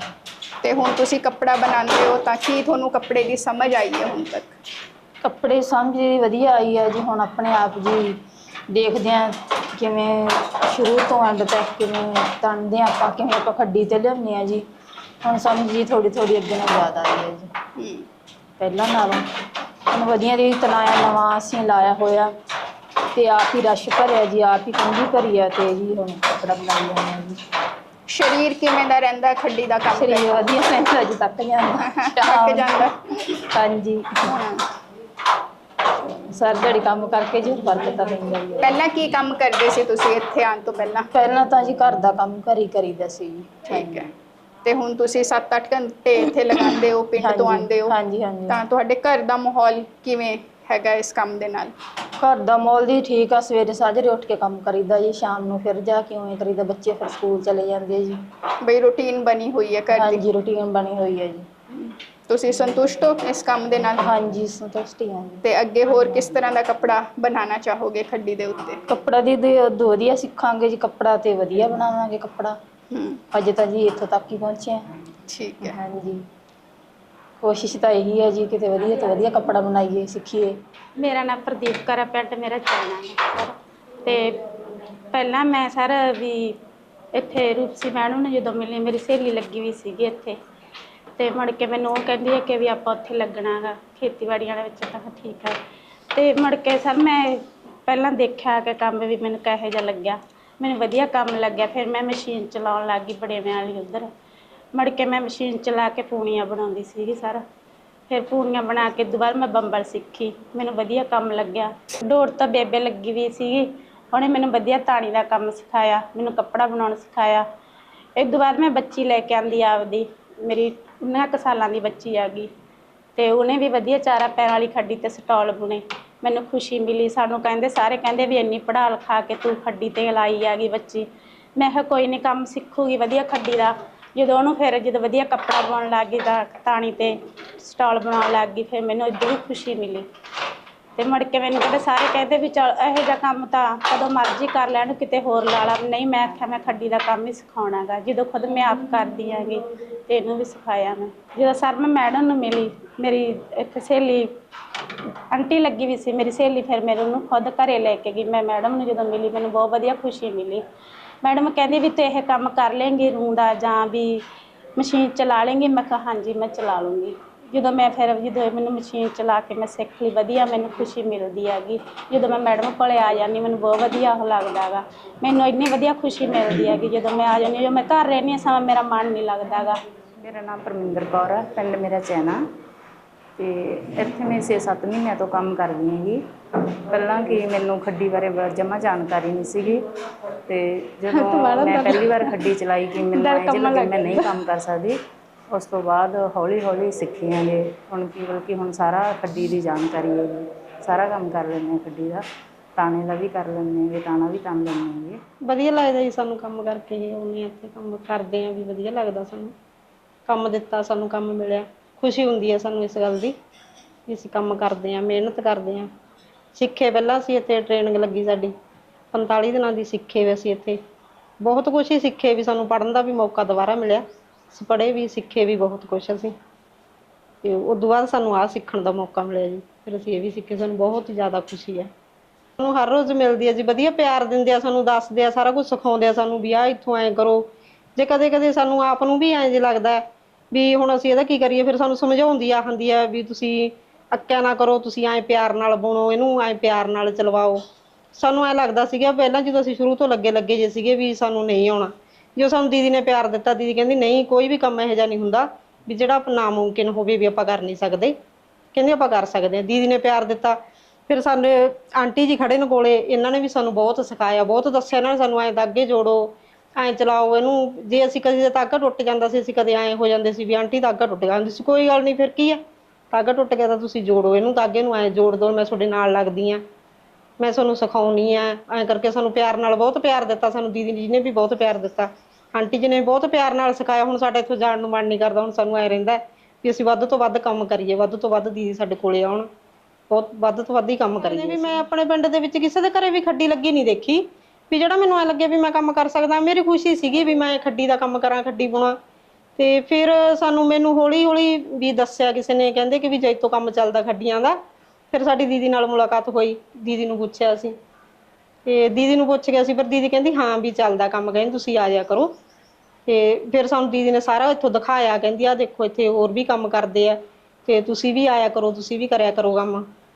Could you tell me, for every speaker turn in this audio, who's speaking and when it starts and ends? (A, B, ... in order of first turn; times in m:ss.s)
0:00.6-0:04.5 A
0:05.2-0:08.2 B
0:08.7-0:14.6 B
0:15.2-0:17.5 B
0:17.8-0:18.0 A
0:18.6-0:19.2 B
0:19.9-0:22.3 B
0:23.1-0:27.4 B
0:28.1-0:30.5 A
0:29.9-0:32.8 B
0:31.9-0:33.2 A
0:33.3-0:34.3 B
0:34.3-0:34.6 A
0:36.4-0:38.7 B
0:38.6-0:41.1 A
0:41.1-0:44.1 B
0:43.7-0:44.1 A
0:44.6-0:47.9 A
0:47.2-0:48.6 B
0:48.5-0:51.7 A
0:52.2-0:58.2 B
0:58.6-1:00.2 A
0:59.9-1:01.4 B
1:01.7-1:04.0 A
1:04.0-1:05.4 B
1:05.4-1:08.8 A
1:08.9-1:12.6 B
1:12.9-1:13.2 A
1:13.3-1:14.8 B
1:15.3-1:15.8 A
1:15.6-1:16.2 B
1:17.4-1:20.5 B
1:21.0-1:24.4 C
1:25.1-1:26.6 C
1:27.1-1:30.4 C
1:31.2-1:35.6 C
1:36.1-1:44.1 C
1:44.7-1:47.4 C
1:48.1-1:57.4 C
1:58.2-2:02.5 C
2:03.2-2:20.1 C
2:21.0-2:34.3 C
2:35.3-2:40.6 C
2:41.2-2:44.2 C
2:44.8-2:59.8 C
3:00.2-3:02.4 D
3:03.4-3:06.2 D
3:06.9-3:09.8 D
3:10.5-3:15.0 D
3:11.1-3:12.3 C
3:13.1-3:14.3 C
3:15.5-3:22.2 D
3:22.8-3:25.2 D
3:25.5-3:29.5 E
3:30.3-3:33.3 E
3:34.1-3:35.9 E
3:36.5-3:38.5 E
3:39.1-3:40.8 E
3:41.4-3:46.3 E
3:47.4-3:51.9 E
3:52.6-4:07.6 E
4:08.1-4:18.1 E
4:18.7-4:32.6 E
4:33.1-4:36.6 E
4:37.4-4:49.5 E
4:50.1-4:59.0 E
4:51.3-4:51.6 C
4:59.6-5:04.6 E
5:05.1-5:07.7 E
5:08.6-5:12.3 E
5:13.1-5:19.9 E